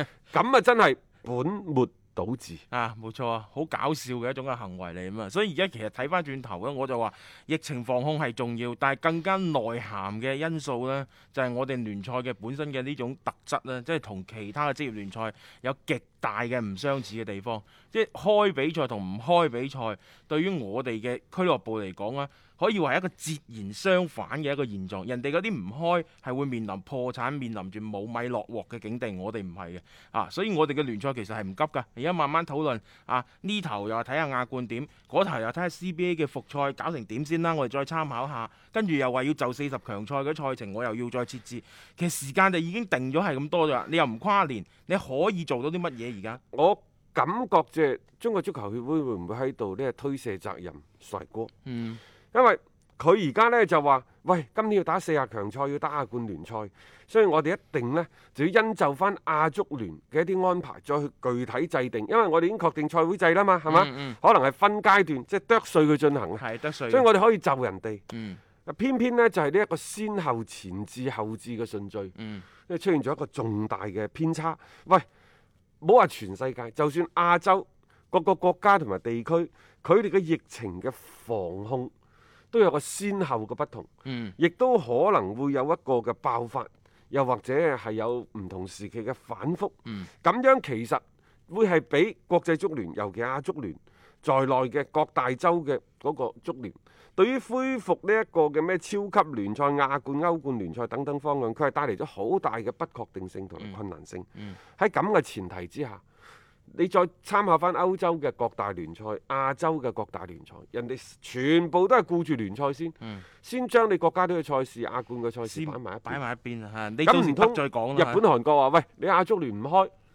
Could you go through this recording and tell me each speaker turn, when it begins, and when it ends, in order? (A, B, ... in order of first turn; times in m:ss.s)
0:00.3-0:02.6 A
0:02.7-0:46.4 B
0:46.5-0:51.5 A
0:51.6-0:52.0 B
0:52.3-1:08.0 A
1:03.7-1:04.2 B
1:06.4-1:07.1 B
1:08.1-1:08.4 B
1:08.7-1:12.2 A
1:12.2-1:12.5 B
1:12.7-1:15.1 A
1:15.8-1:21.9 A
1:22.5-1:46.0 A
1:24.0-1:24.4 B
1:46.7-1:56.2 A
1:53.0-1:53.3 B
1:55.4-1:58.2 B
1:57.0-1:59.9 A